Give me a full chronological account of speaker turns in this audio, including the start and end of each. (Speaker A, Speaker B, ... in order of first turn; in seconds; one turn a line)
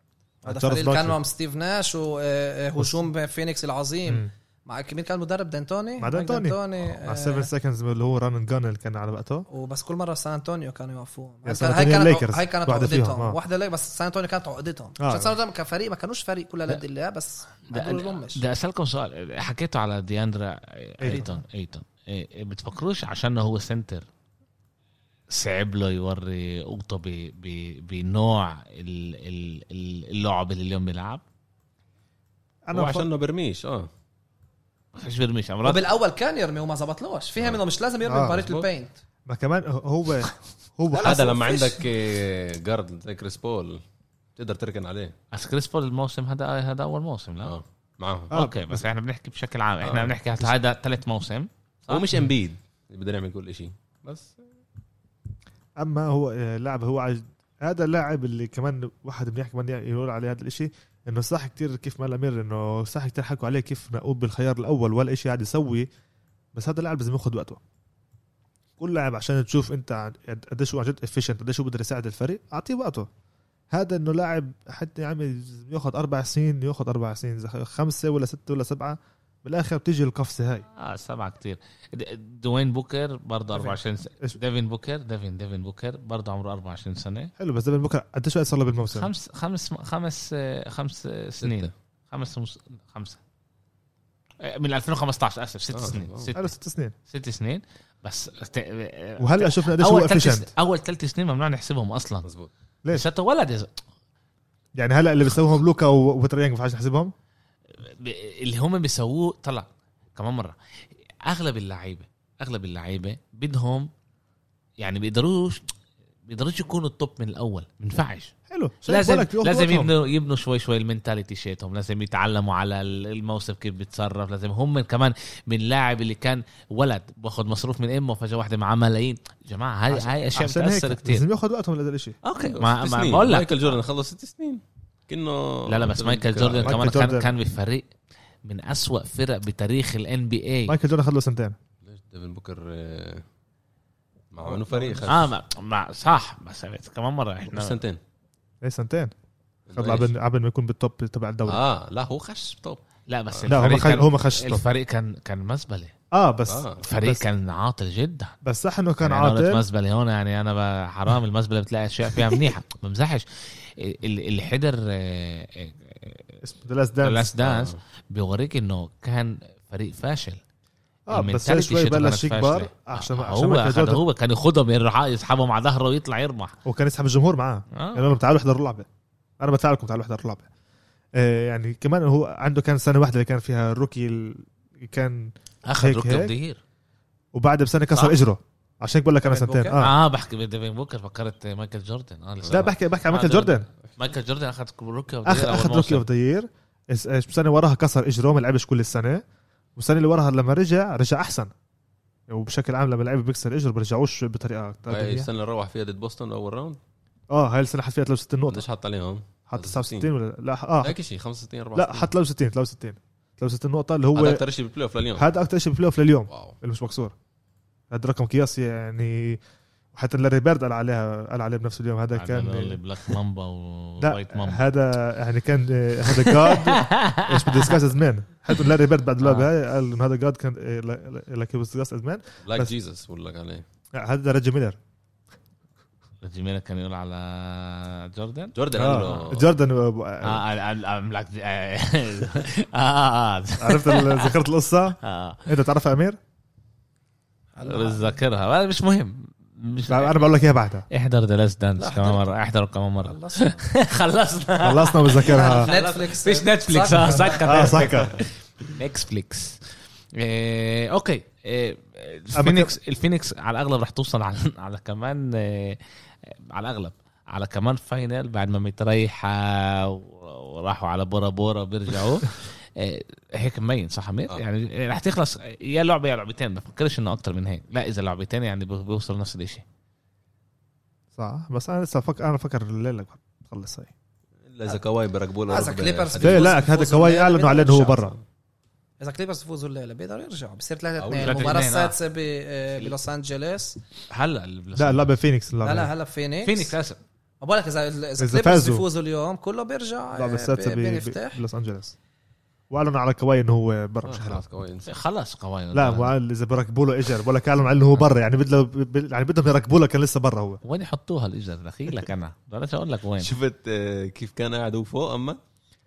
Speaker A: 0.5-7.5
Speaker B: 0.5-1.2
Speaker B: 2.8-3.0
Speaker B: 6.0-9.5
Speaker A: 9.5-18.4
Speaker B: 11.4-13.4
Speaker B: 15.0-15.4
Speaker C: 17.7-24.1
Speaker B: 21.0-21.4
Speaker C: 25.3-31.2
Speaker B: 32.7-33.1
Speaker D: 32.7-33.9
Speaker C: 35.0-35.8
Speaker A: 35.6-38.9
Speaker B: 38.0-38.5
Speaker D: 38.4-38.7
Speaker B: 39.3-41.4
Speaker A: 40.9-41.8
Speaker D: 41.0-43.8
Speaker D: 44.4-45.2
Speaker C: 45.3-47.5
Speaker D: 47.4-48.3
Speaker C: 48.3-52.1
Speaker B: 48.3-48.8
Speaker D: 49.8-50.2
Speaker D: 51.9-54.3
Speaker B: 55.8-65.9
Speaker B: 66.5-67.6
Speaker B: 68.8-73.1
Speaker B: 73.7-80.7
Speaker C: 80.8-87.3
Speaker B: 83.5-84.4
Speaker B: 87.4-89.1
Speaker C: 88.9-93.2
Speaker D: 91.4-91.7
Speaker C: 94.4-96.5
Speaker D: 95.7-96.3
Speaker B: 96.3-96.9
Speaker C: 97.1-102.3
Speaker B: 99.2-100.5
Speaker D: 102.2-102.5
Speaker C: 102.9-103.8
Speaker B: 104.8-107.1
Speaker C: 107.8-110.6
Speaker C: 111.2-113.9
Speaker C: 114.8-115.6
Speaker C: 116.3-118.3
Speaker B: 118.5-119.9
Speaker C: 118.9-131.2
Speaker B: 129.9-132.2
Speaker C: 132.2-133.8
Speaker D: 132.5-137.0
Speaker C: 135.7-137.9
Speaker B: 136.6-137.3
Speaker C: 138.4-140.8
Speaker B: 140.7-141.6
Speaker D: 141.8-143.2
Speaker D: 144.3-145.3
Speaker B: 144.4-145.1
Speaker C: 145.1-147.8
Speaker D: 147.5-148.0
Speaker B: 148.6-149.1
Speaker D: 149.7-150.1
Speaker B: 149.7-151.6
Speaker D: 151.5-154.0
Speaker C: 153.1-155.9
Speaker B: 153.5-154.6
Speaker B: 156.1-157.2
Speaker D: 156.5-156.8
Speaker C: 156.8-158.4
Speaker B: 158.4-159.6
Speaker C: 159.0-166.4
Speaker B: 166.4-167.3
Speaker C: 167.0-170.4
Speaker D: 167.4-167.8
Speaker B: 171.1-174.0
Speaker C: 171.1-176.6
Speaker B: 176.7-178.9
Speaker C: 177.7-178.1
Speaker B: 179.4-180.5
Speaker B: 181.2-186.3
Speaker C: 185.7-186.6
Speaker B: 187.3-189.9
Speaker C: 187.9-188.2
Speaker A: 189.3-189.8
Speaker C: 189.8-196.0
Speaker B: 192.5-193.7
Speaker B: 195.3-199.2
Speaker B: 199.8-201.5
Speaker B: 202.3-205.3
Speaker D: 204.9-206.8
Speaker B: 207.3-208.7
Speaker D: 208.5-210.1
Speaker B: 209.5-211.0
Speaker D: 210.8-212.1
Speaker B: 211.8-214.4
Speaker D: 214.2-215.3
Speaker B: 215.2-217.2
Speaker D: 216.3-216.6
Speaker B: 217.9-219.4
Speaker B: 219.9-222.8
Speaker C: 222.2-224.6
Speaker B: 224.0-232.7
Speaker C: 226.1-227.8
Speaker C: 229.2-229.5
Speaker D: 232.4-233.7
Speaker B: 233.9-234.8
Speaker C: 236.2-238.6
Speaker D: 238.6-239.5
Speaker B: 238.7-240.4
Speaker C: 240.2-244.4
Speaker B: 243.6-246.2
Speaker C: 245.0-245.4
Speaker A: 247.6-248.2
Speaker C: 247.6-250.3
Speaker B: 249.9-250.9
Speaker C: 250.9-279.6
Speaker A: 251.8-252.3
Speaker A: 253.0-253.6
Speaker B: 254.6-255.7
Speaker A: 255.2-257.8
Speaker B: 257.4-258.2
Speaker B: 262.4-262.7
Speaker B: 281.2-283.9
Speaker D: 284.4-286.6
Speaker A: 285.5-288.1
Speaker B: 286.2-288.2
Speaker A: 289.0-293.8
Speaker D: 291.0-291.6
Speaker C: 291.2-292.0
Speaker C: 294.1-295.1
Speaker B: 294.8-295.9
Speaker A: 295.6-296.8
Speaker C: 296.4-297.0
Speaker A: 297.4-301.4
Speaker B: 298.2-298.9
Speaker B: 300.1-301.9
Speaker B: 302.7-304.4
Speaker D: 304.1-304.9
Speaker C: 304.9-306.1
Speaker B: 305.7-310.6
Speaker C: 310.6-313.3
Speaker D: 313.2-315.4